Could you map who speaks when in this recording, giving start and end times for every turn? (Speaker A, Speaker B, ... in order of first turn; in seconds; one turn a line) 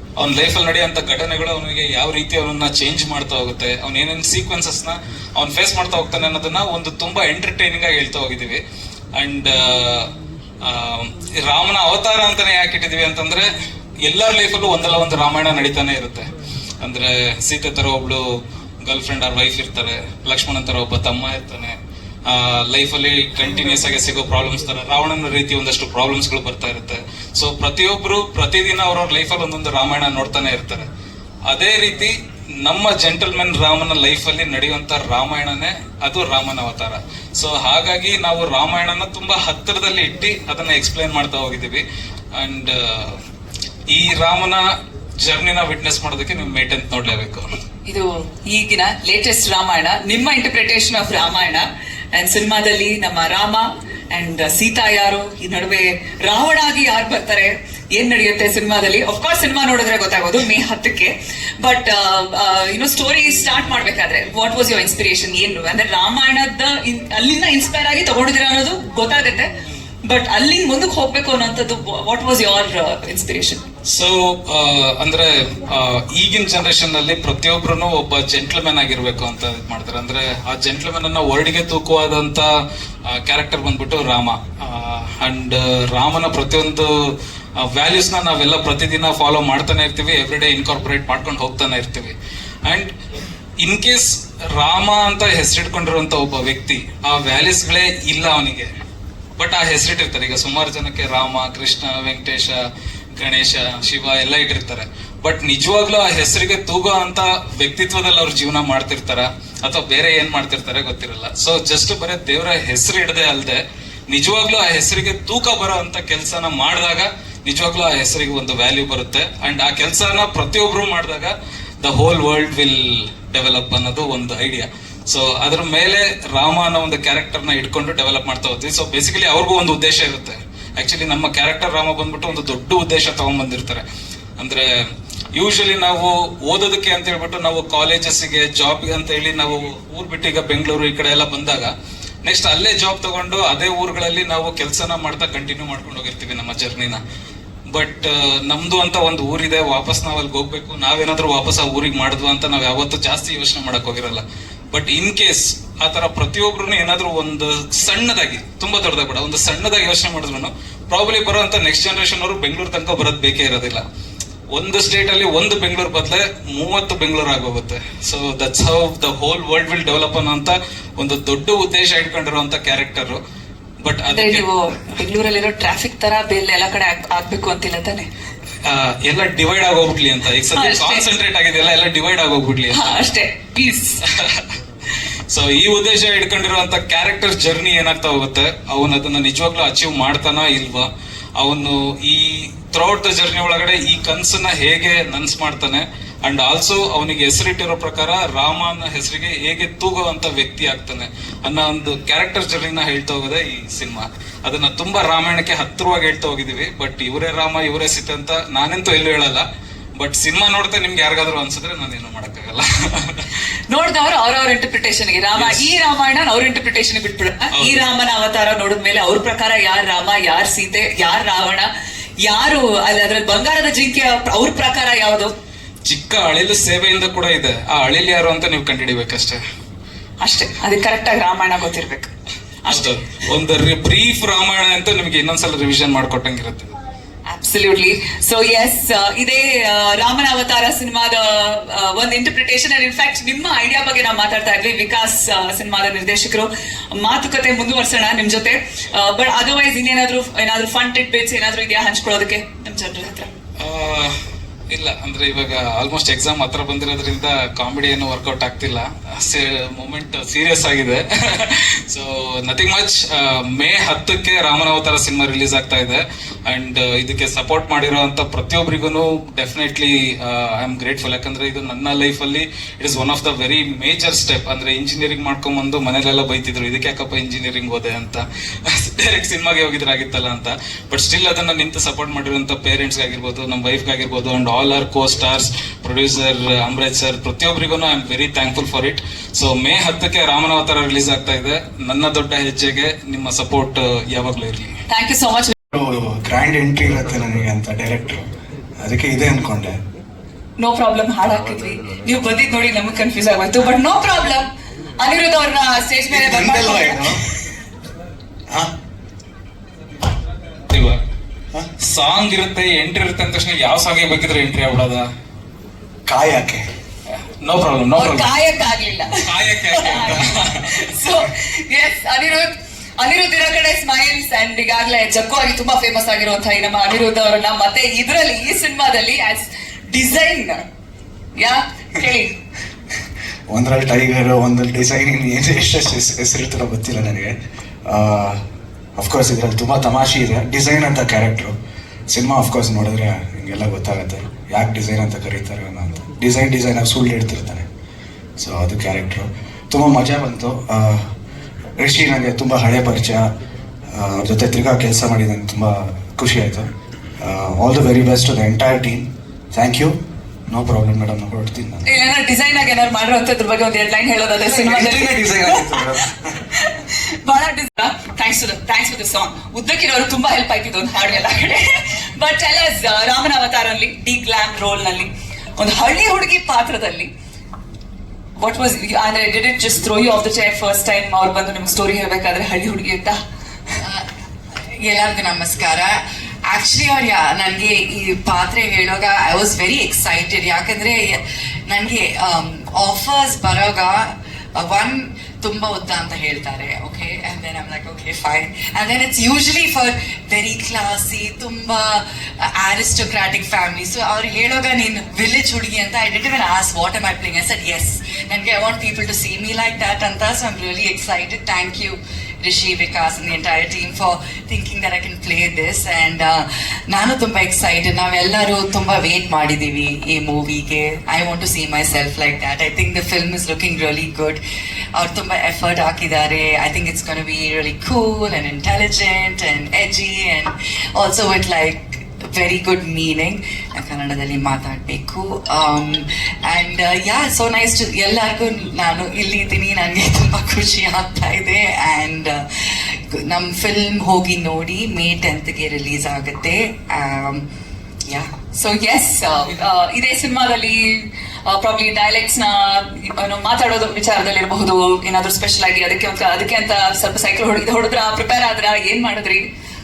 Speaker A: 0.2-8.6
Speaker A: 9.2-10.1
Speaker A: 10.6-16.3
Speaker A: 16.8-18.2
Speaker A: 18.8-30.9
Speaker A: 31.5-43.2
Speaker A: 43.9-44.7
Speaker A: 45.2-47.5
Speaker B: 47.9-73.6
Speaker A: 73.8-82.5
Speaker A: 83.0-87.0
Speaker A: 87.6-92.1
Speaker A: 92.7-92.9
Speaker A: 93.6-98.7
Speaker A: 99.4-102.6
Speaker A: 103.1-133.8
Speaker A: 134.4-134.7
Speaker A: 135.3-141.7
Speaker A: 142.2-147.0
Speaker A: 147.7-163.8
Speaker A: 164.5-173.2
Speaker A: 173.8-174.4
Speaker B: 174.1-178.1
Speaker A: 178.6-182.9
Speaker B: 180.5-181.0
Speaker B: 182.7-184.0
Speaker A: 184.2-184.4
Speaker A: 185.3-209.4
Speaker A: 210.0-213.3
Speaker B: 213.7-221.7
Speaker A: 215.3-215.7
Speaker A: 217.5-217.8
Speaker B: 222.2-225.3
Speaker A: 225.8-229.4
Speaker B: 230.2-232.1
Speaker B: 232.6-232.9
Speaker A: 232.7-236.7
Speaker B: 237.3-253.3
Speaker A: 253.6-254.1
Speaker A: 254.7-294.8
Speaker B: 294.9-295.6
Speaker C: 295.7-299.8
Speaker B: 300.6-307.2
Speaker C: 306.1-307.2
Speaker A: 310.7-311.0
Speaker A: 311.8-315.1
Speaker C: 316.1-316.6
Speaker A: 317.4-318.3
Speaker B: 317.9-330.6
Speaker A: 319.1-320.7
Speaker B: 331.4-332.4
Speaker C: 333.5-338.4
Speaker C: 338.9-341.6
Speaker C: 342.1-347.6
Speaker C: 348.4-351.1
Speaker C: 351.8-353.3
Speaker C: 353.9-361.9
Speaker B: 361.8-366.0
Speaker C: 364.4-366.4
Speaker B: 366.5-377.1
Speaker B: 378.4-383.2
Speaker D: 383.8-384.1
Speaker D: 384.8-424.4
Speaker D: 424.9-447.4
Speaker D: 448.1-448.4
Speaker B: 448.5-459.5